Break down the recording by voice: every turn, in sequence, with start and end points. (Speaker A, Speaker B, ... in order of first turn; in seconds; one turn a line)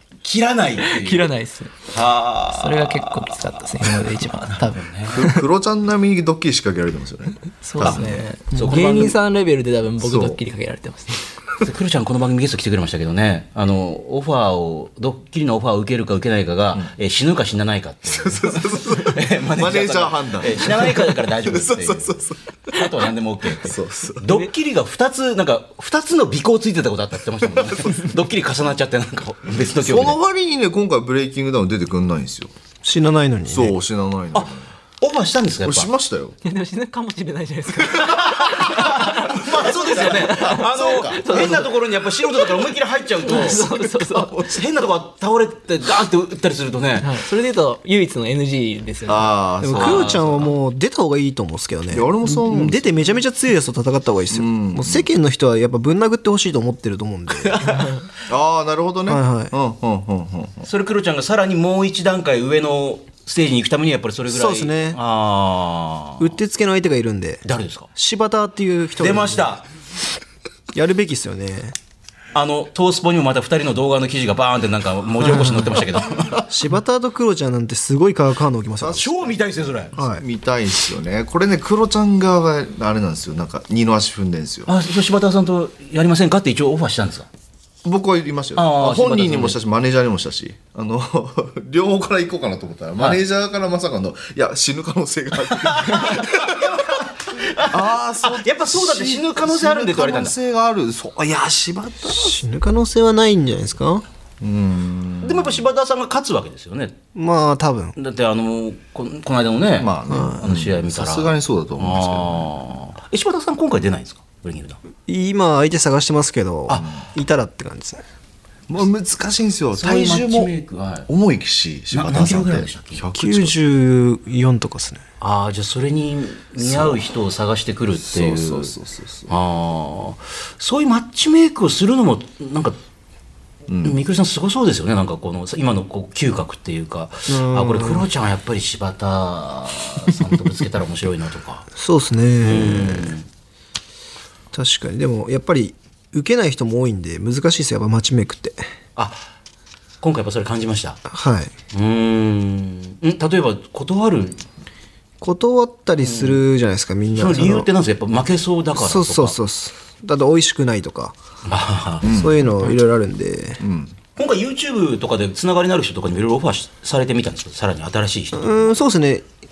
Speaker A: 0.2-1.3
Speaker B: 0.8-1.7
Speaker A: 1.9-5.2
Speaker B: 2.5-5.4
Speaker C: 5.1-8.2
Speaker B: 7.6-11.2
Speaker A: 7.8-9.2
Speaker C: 10.0-10.4
Speaker A: 11.6-30.2
Speaker C: 18.1-24.4
Speaker C: 27.6-27.9
Speaker C: 29.8-32.5
Speaker D: 32.8-33.8
Speaker C: 33.5-34.6
Speaker A: 34.3-35.9
Speaker C: 35.6-36.4
Speaker B: 36.4-42.7
Speaker A: 38.5-43.6
Speaker C: 39.5-41.6
Speaker B: 43.2-44.4
Speaker C: 43.2-44.6
Speaker A: 44.3-47.2
Speaker B: 47.0-49.4
Speaker C: 49.0-50.5
Speaker D: 49.6-57.6
Speaker A: 49.7-50.5
Speaker C: 51.9-53.2
Speaker C: 54.3-55.1
Speaker A: 57.4-58.0
Speaker B: 57.6-58.0
Speaker C: 58.3-60.6
Speaker D: 59.1-59.5
Speaker A: 60.6-66.4
Speaker D: 64.3-65.0
Speaker D: 66.2-67.4
Speaker A: 67.4-67.9
Speaker D: 68.0-69.5
Speaker A: 69.0-69.7
Speaker D: 70.7-71.8
Speaker A: 72.3-76.5
Speaker D: 76.5-79.0
Speaker C: 78.8-84.7
Speaker A: 78.9-79.9
Speaker D: 80.0-80.2
Speaker A: 84.7-87.3
Speaker C: 87.8-96.8
Speaker A: 88.5-89.6
Speaker A: 93.0-93.2
Speaker A: 95.5-100.3
Speaker C: 97.7-102.4
Speaker D: 102.0-104.0
Speaker C: 104.4-105.6
Speaker A: 105.2-106.9
Speaker D: 107.1-108.0
Speaker A: 108.0-114.8
Speaker C: 109.8-112.5
Speaker D: 110.1-110.4
Speaker D: 115.1-118.0
Speaker C: 116.7-117.0
Speaker C: 118.7-120.5
Speaker A: 119.7-121.1
Speaker C: 121.1-123.6
Speaker A: 121.9-123.0
Speaker D: 123.1-125.0
Speaker A: 125.2-128.8
Speaker C: 126.6-127.0
Speaker C: 128.0-129.3
Speaker A: 129.3-132.8
Speaker C: 133.7-134.0
Speaker A: 133.8-141.7
Speaker D: 137.3-138.1
Speaker D: 141.8-143.2
Speaker A: 142.4-143.3
Speaker D: 144.5-148.6
Speaker A: 148.9-149.3
Speaker A: 150.0-151.0
Speaker D: 151.1-151.5
Speaker A: 151.7-154.4
Speaker D: 155.2-157.7
Speaker A: 156.0-156.4
Speaker A: 157.1-159.4
Speaker D: 158.7-161.2
Speaker A: 161.4-162.1
Speaker D: 162.0-163.6
Speaker C: 162.0-162.4
Speaker C: 163.6-163.9
Speaker A: 164.2-168.7
Speaker D: 168.3-169.2